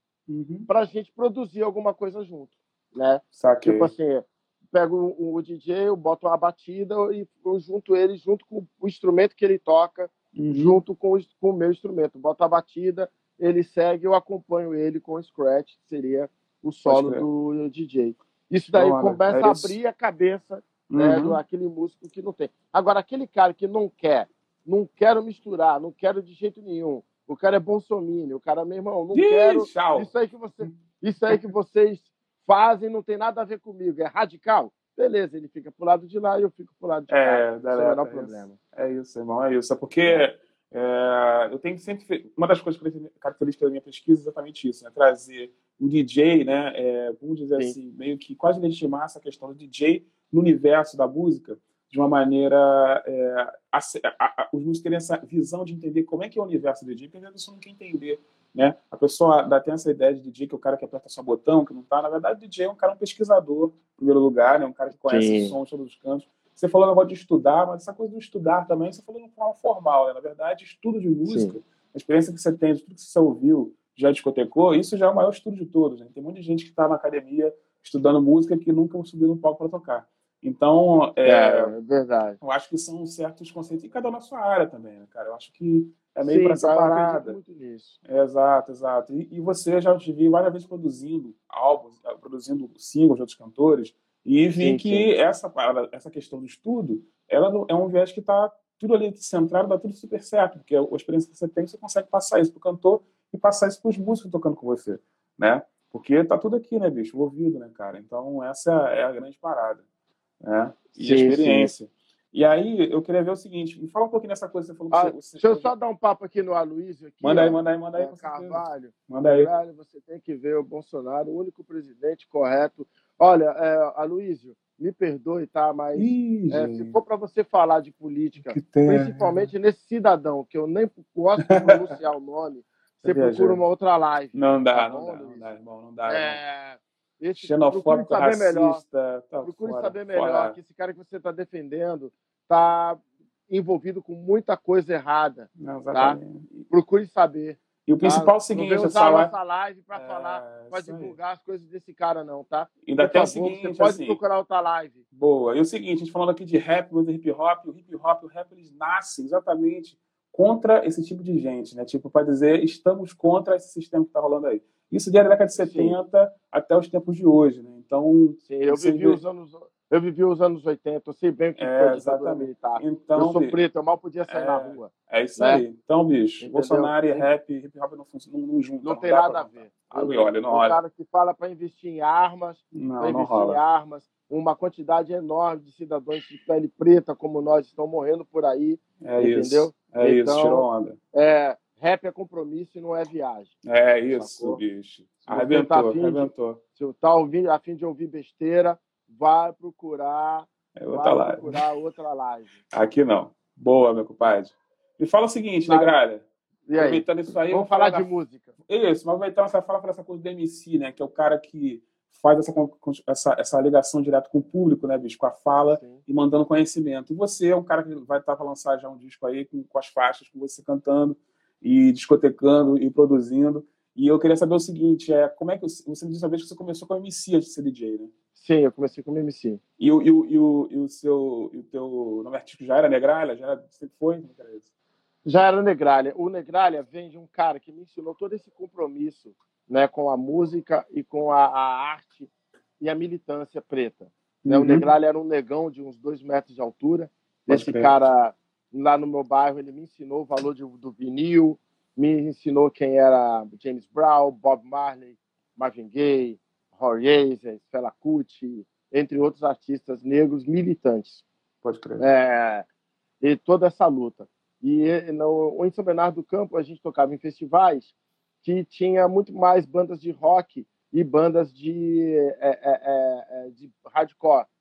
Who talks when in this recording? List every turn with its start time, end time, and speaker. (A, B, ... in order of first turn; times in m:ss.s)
0:00.3-0:00.7 A
0:00.7-0:38.6 B
0:03.3-0:03.9 A
0:10.4-0:10.8 A
0:16.9-0:17.3 A
0:18.7-0:19.8 A
0:20.9-0:21.4 A
0:29.1-0:30.1 A
0:37.1-1:21.7 A
0:40.0-0:40.3 B
1:05.1-1:05.6 B
1:11.3-1:11.6 B
1:21.2-1:22.4 B
1:22.4-1:27.4 A
1:26.2-1:28.0 B
1:28.1-1:49.8 A
1:34.6-1:35.1 B
1:50.4-1:55.7 A
1:51.0-1:51.7 B
1:54.9-2:15.5 B
1:57.2-1:59.5 A
2:06.0-2:07.0 A
2:08.4-2:09.5 A
2:11.5-2:12.0 A
2:13.0-2:13.6 A
2:14.3-2:16.4 A
2:16.1-2:18.8 B
2:17.4-2:20.6 A
2:19.4-2:35.0 B
2:25.6-2:26.7 A
2:27.9-2:29.3 A
2:29.9-2:31.2 A
2:32.8-2:34.2 A
2:35.1-2:49.2 A
2:45.6-2:46.0 B
2:48.4-2:55.6 B
2:51.6-2:53.6 A
2:54.3-3:00.8 A
2:56.4-2:57.3 B
2:58.8-3:13.6 B
3:02.8-3:03.6 A
3:09.0-3:11.0 A
3:13.6-3:16.6 A
3:14.1-3:14.6 B
3:15.3-3:22.6 B
3:20.8-3:21.6 A
3:22.7-3:26.2 A
3:25.6-3:25.9 B
3:26.7-3:28.5 B
3:26.8-3:28.1 A
3:28.7-3:48.1 A
3:35.6-3:36.0 B
3:48.4-3:49.6 B
3:49.8-3:54.7 A
3:55.2-4:02.3 B
4:02.8-4:21.2 B
4:04.4-4:04.9 A
4:07.5-4:07.9 A
4:21.6-4:22.0 A
4:22.0-4:22.7 B
4:23.2-4:27.9 B
4:28.4-4:34.5 B